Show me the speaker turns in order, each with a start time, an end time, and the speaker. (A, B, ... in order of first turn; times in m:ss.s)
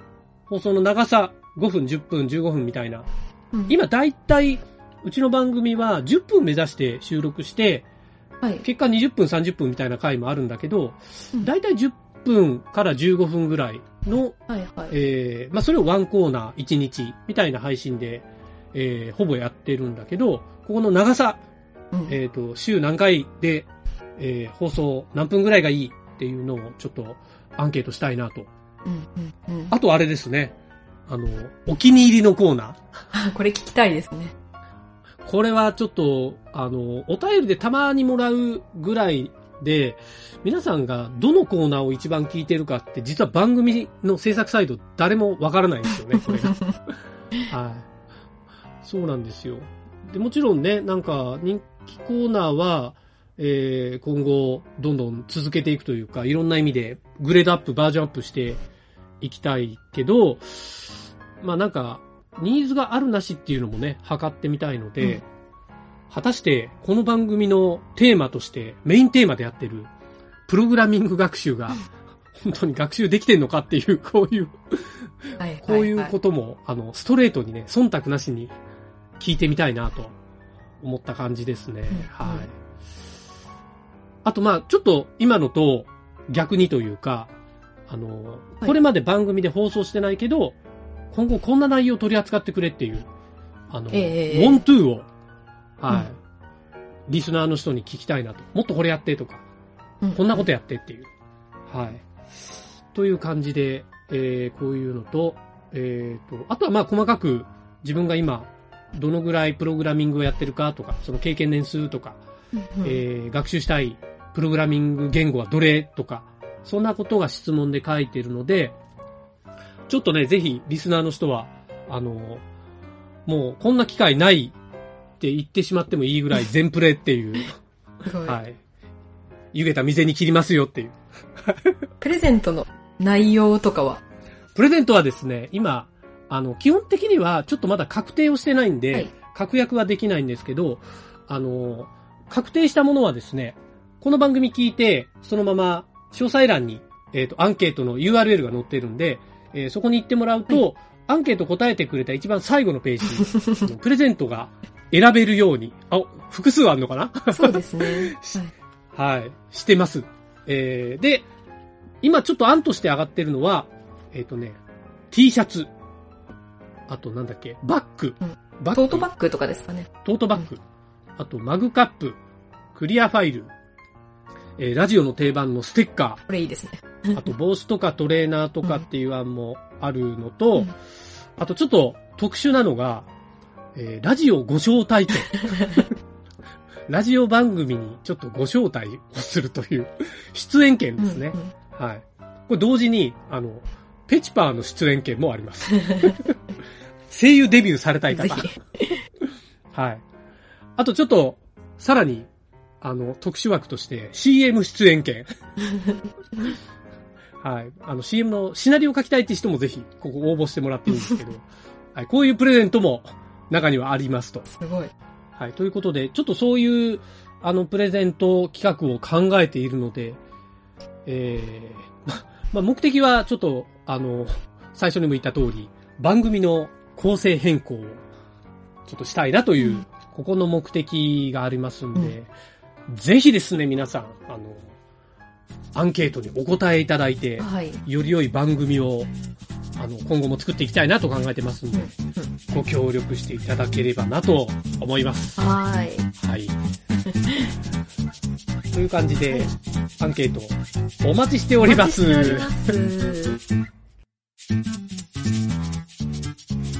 0:00.5-0:03.0 A
0:03.7-0:07.9 A
0:08.6-0:21.4 A
0:14.5-0:15.0 B
0:22.1-0:28.5 A
0:28.8-0:29.7 B
0:29.7-0:30.5 A
0:31.1-0:32.8 A
0:33.1-0:34.3 B
0:35.2-0:46.7 A
0:47.5-0:47.8 A
0:48.8-0:58.6 A
0:59.2-1:05.2 A
1:06.1-1:09.9 A
1:10.5-1:11.9 A
1:12.4-1:14.9 A
1:15.4-1:16.1 B
1:15.6-1:18.5 A
1:19.2-1:20.1 A
1:20.8-1:22.5 A
1:21.9-1:22.4 B
1:24.2-1:27.3 A
1:27.9-1:30.6 A
1:31.1-1:33.1 A
1:33.7-1:35.1 A
1:33.9-1:34.6 B
1:35.8-1:36.2 A
1:37.1-1:39.4 A
1:40.0-1:40.5 B
1:40.1-1:41.1 A
1:41.7-1:42.0 A
1:42.9-1:52.2 A
1:52.5-1:53.0 B
1:52.8-1:58.7 A
1:59.9-2:02.4 A
2:03.2-2:04.6 A
2:05.2-2:07.5 A
2:08.0-2:08.4 B
2:08.2-2:08.6 A
2:09.5-2:11.6 A
2:12.0-2:14.0 B
2:14.5-2:38.4 A
2:37.3-2:38.5 B
2:38.9-2:41.2 A
2:42.0-2:44.6 A
2:45.1-2:45.7 A
2:46.9-2:49.1 A
2:48.2-2:50.4 B
2:50.0-2:50.6 A
2:51.2-2:52.2 A
2:52.7-2:53.5 A
2:54.6-2:56.2 A
2:56.3-2:57.3 B
2:57.1-3:00.7 A
3:01.4-3:03.1 A
3:03.8-3:05.9 A
3:06.9-3:16.3 A
3:11.0-3:11.5 B
3:17.1-3:18.5 A
3:18.1-3:19.0 B
3:19.7-3:20.0 A
3:20.8-3:22.3 A
3:22.8-3:25.3 A
3:27.4-3:34.4 A
3:34.4-3:34.9 B
3:35.4-3:40.2 A
3:41.0-3:48.0 A
3:48.9-3:52.3 A
3:49.6-3:49.8 B
3:52.9-3:54.7 A
3:55.8-3:59.1 A
3:57.4-3:57.8 B
3:59.8-4:01.9 A
4:01.7-4:02.3 B
4:02.5-4:05.5 A
4:05.4-4:06.1 B
4:06.2-4:06.6 A
4:08.7-4:12.7 A
4:11.6-4:13.4 B